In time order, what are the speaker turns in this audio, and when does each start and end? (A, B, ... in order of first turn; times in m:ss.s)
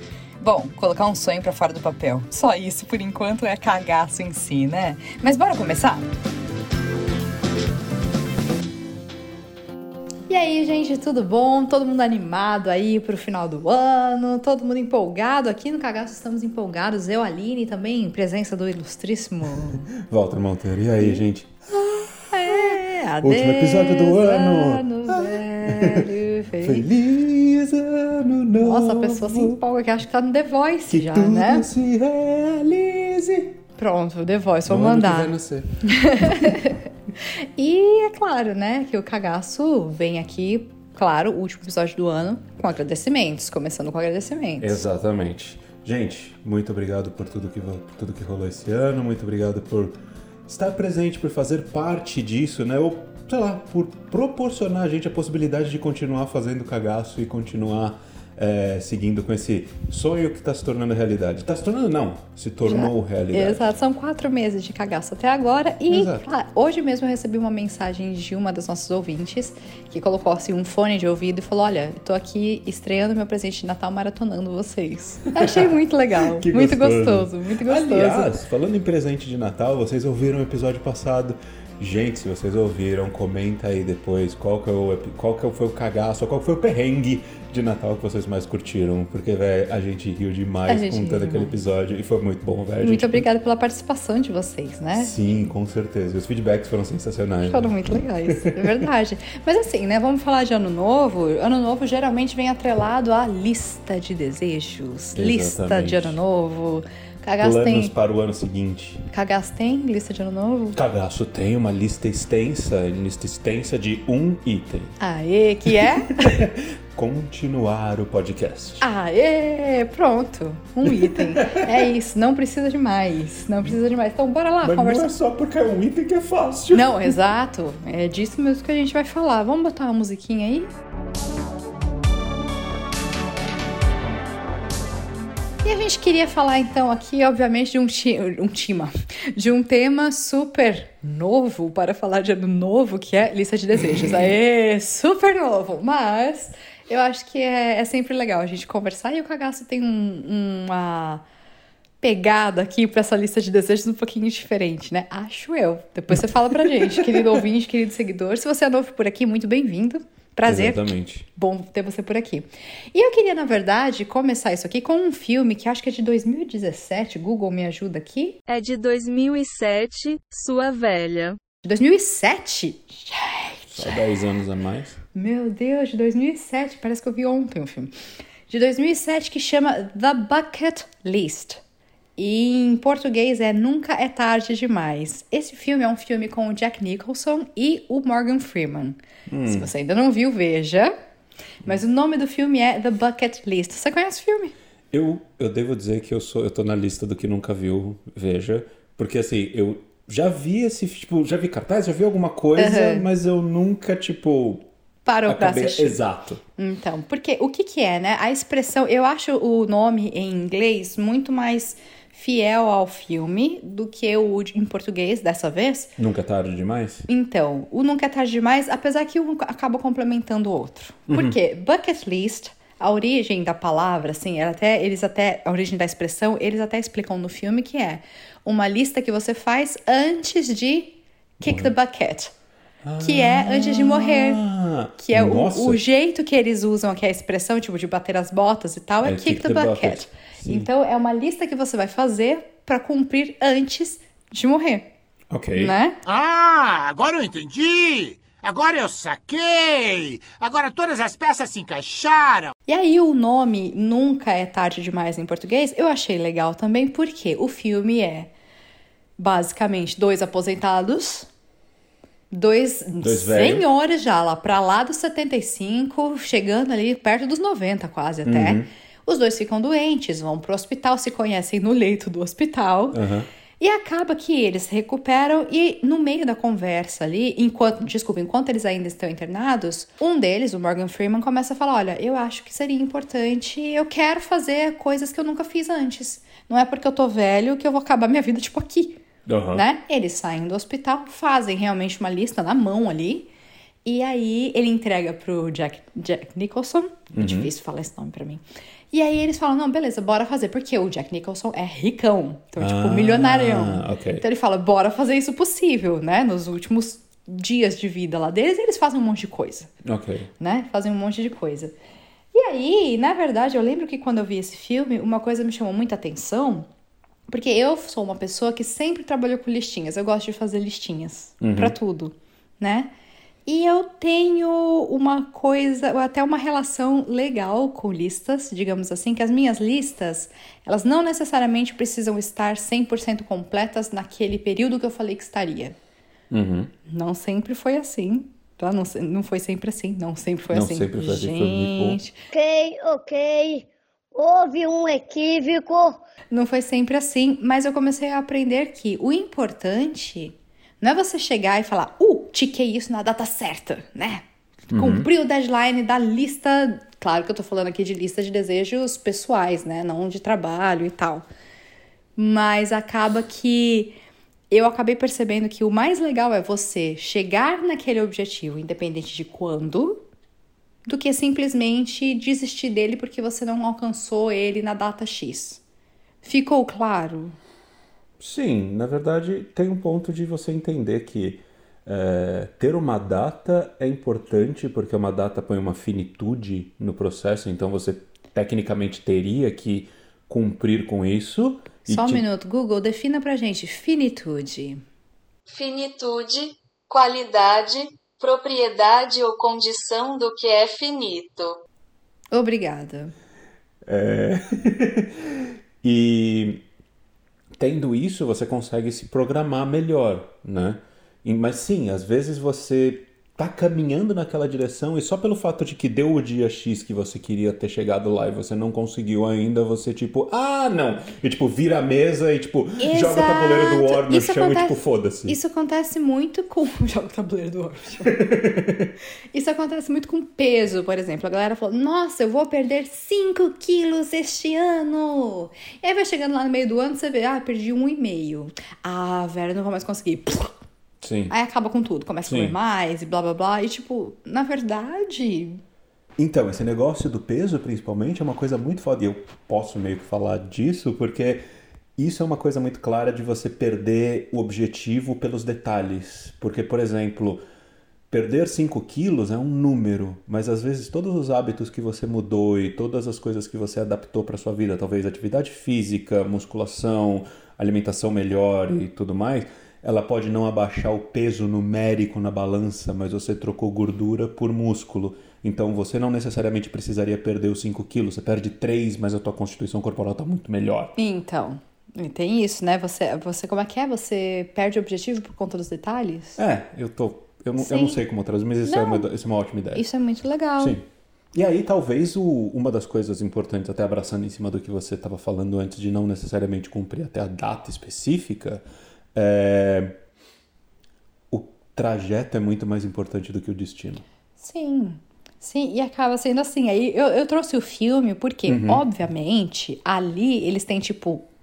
0:00.4-0:06.1 A
0:10.3-0:19.9 A
0:19.9-0:26.1 B
0:22.3-0:26.8 A
0:26.6-0:29.6 B
0:28.6-0:31.7 A
0:30.9-0:33.6 B
0:33.8-0:35.3 A
0:34.6-0:36.6 B
0:35.8-0:44.8 A
0:44.6-1:03.7 B
1:02.6-1:18.3 A
1:05.9-1:06.3 B
1:15.4-1:33.2 B
1:30.7-1:31.5 A
1:32.8-1:35.2 A
1:34.9-1:37.7 B
1:37.4-1:47.9 A
1:45.1-1:46.2 B
1:47.4-1:49.1 B
1:49.1-1:50.8 A
1:50.8-1:54.9 B
1:55.0-1:56.4 A
1:55.7-1:58.8 B
1:58.8-2:05.1 A
2:00.8-2:01.9 B
2:04.6-2:07.2 B
2:06.7-2:10.7 A
2:15.6-2:31.2 A
2:32.0-2:48.4 A
2:36.7-2:37.4 B
2:40.4-2:41.3 B
2:48.5-2:51.4 C
2:51.6-2:54.0 A
2:53.7-2:55.0 B
2:55.1-2:57.9 A
2:58.5-3:01.6 A
3:02.2-3:10.9 A
3:09.3-3:09.7 B
3:11.6-3:14.5 A
3:14.9-3:24.7 B
3:22.6-3:23.0 A
3:25.0-3:26.0 A
3:25.2-3:26.4 B
3:26.6-3:35.9 A
3:36.0-3:37.1 B
3:37.1-3:52.3 A
3:41.1-3:41.4 B
3:51.4-3:51.7 B
3:52.8-3:55.8 B
3:53.0-3:54.4 A
3:55.0-4:04.9 A
3:59.0-4:00.7 B
4:05.3-4:05.8 B
4:05.5-4:06.0 A
4:06.0-4:12.5 D
4:12.7-4:18.3 A
4:19.2-4:21.3 A
4:22.3-4:33.0 A
4:23.0-4:23.6 B
4:28.2-4:28.7 B
4:32.9-4:33.3 B
4:33.6-4:53.3 A
4:49.3-4:49.6 B
4:53.8-5:09.7 A
4:57.1-4:57.5 B
5:02.6-5:04.2 B
5:09.8-5:10.3 B
5:10.4-5:11.7 A
5:12.3-5:16.6 A
5:17.3-5:22.9 A
5:21.4-5:21.8 B
5:23.4-5:35.8 A
5:36.3-5:36.7 B
5:36.9-5:42.2 A
5:40.5-5:42.0 B
5:42.3-5:46.0 E
5:46.3-6:01.2 A
5:54.7-5:55.1 B
6:02.2-6:04.0 A
6:04.5-6:10.0 A
6:10.8-6:15.6 A
6:16.2-6:17.4 A
6:18.2-6:32.2 B
6:31.9-6:34.8 A
6:35.5-6:41.6 C
6:42.3-6:43.1 A
6:43.8-6:46.6 B
6:47.6-7:05.4 B
7:02.8-7:08.2 A
7:08.0-7:08.9 B
7:09.3-7:20.6 A
7:21.0-7:21.3 B
7:21.3-7:25.6 A
7:22.2-7:22.5 B
7:26.2-7:31.4 B
7:32.0-7:37.4 B
7:38.1-8:00.9 B
8:01.0-8:06.4 A
8:06.4-8:09.8 B
8:07.6-8:08.0 A
8:08.6-8:09.1 A
8:09.7-8:10.8 A
8:10.6-8:18.6 B
8:19.1-8:20.0 B
8:21.3-8:24.0 B
8:24.4-8:31.2 A
8:28.5-8:28.8 B